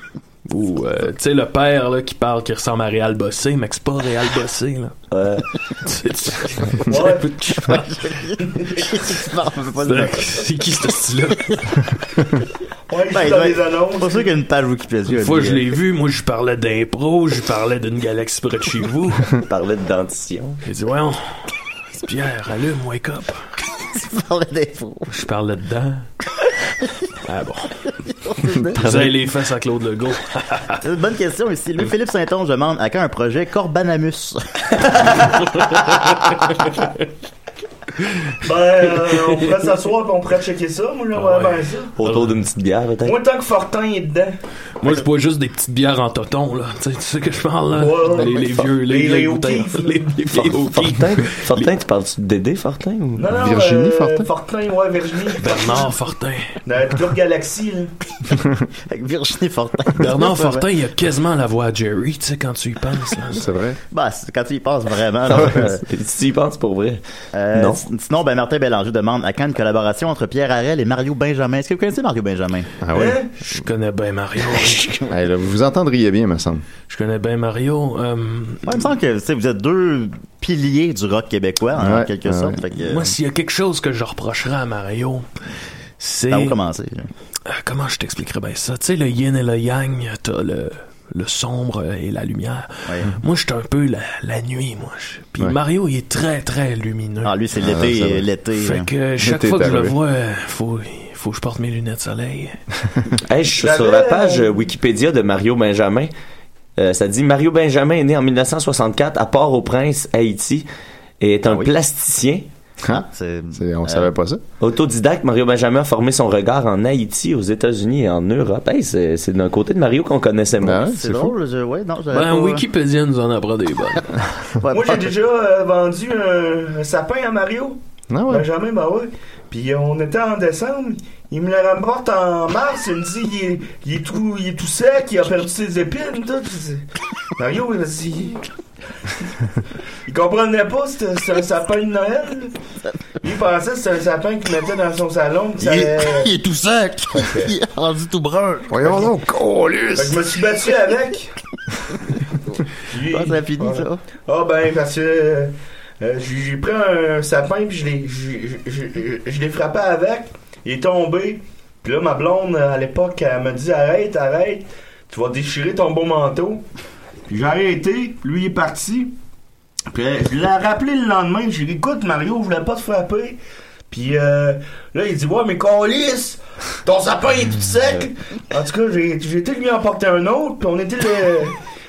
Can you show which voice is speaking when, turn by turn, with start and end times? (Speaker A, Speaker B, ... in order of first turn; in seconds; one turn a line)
Speaker A: 0.5-4.9
Speaker B: 5.1-5.4
Speaker A: 5.8-7.9
Speaker C: 6.9-7.3
Speaker D: 7.6-10.5
Speaker C: 8.5-8.7
Speaker A: 9.8-11.6
Speaker C: 12.9-14.3
Speaker D: 13.1-15.8
Speaker A: 15.1-19.3
Speaker B: 19.4-20.6
Speaker A: 20.6-21.2
Speaker A: 21.9-23.4
Speaker D: 23.8-25.1
Speaker A: 25.1-26.1
Speaker A: 27.3-27.7
Speaker D: 28.2-29.0
Speaker A: 28.8-30.8
Speaker D: 30.8-35.8
Speaker C: 38.4-41.9
Speaker A: 39.2-39.5
Speaker A: 41.1-42.4
Speaker B: 42.0-43.2
Speaker C: 43.0-44.3
Speaker A: 44.8-51.7
Speaker C: 47.7-50.2
Speaker B: 50.3-53.2
Speaker C: 53.1-55.9
Speaker E: 53.3-54.3
Speaker A: 55.4-56.5
Speaker C: 56.6-57.9
Speaker D: 58.9-60.7
Speaker A: 60.0-63.4
Speaker E: 63.3-63.8
Speaker D: 63.9-65.8
Speaker B: 65.3-67.0
Speaker D: 67.3-72.7
Speaker B: 67.5-67.8
Speaker E: 72.8-73.2
Speaker C: 72.9-73.3
Speaker A: 73.4-75.0
Speaker E: 75.0-76.6
Speaker A: 76.9-78.6
Speaker D: 78.6-83.1
Speaker E: 81.8-82.6
Speaker A: 82.8-85.2
Speaker A: 86.0-86.5
Speaker D: 86.3-87.1
Speaker A: 87.5-97.3
Speaker D: 97.2-98.9
Speaker E: 97.6-98.2
Speaker A: 98.5-102.6
Speaker E: 99.2-100.0
Speaker B: 103.3-106.1
Speaker C: 103.6-104.5
Speaker B: 106.8-110.7
Speaker B: 111.2-112.5
Speaker D: 111.5-111.7
Speaker E: 112.8-114.4
Speaker D: 112.9-114.1
Speaker B: 114.6-120.8
Speaker E: 120.6-121.3
Speaker D: 120.8-122.6
Speaker A: 122.1-124.0
Speaker D: 124.6-125.1
Speaker C: 124.7-136.8
Speaker E: 128.1-128.5
Speaker C: 137.4-138.4
Speaker C: 140.1-142.5
Speaker C: 143.2-146.3
Speaker D: 145.6-149.0
Speaker E: 148.7-150.2
Speaker C: 149.9-151.3
Speaker C: 152.9-166.6
Speaker D: 153.1-154.0
Speaker C: 167.3-169.1
Speaker C: 169.9-181.6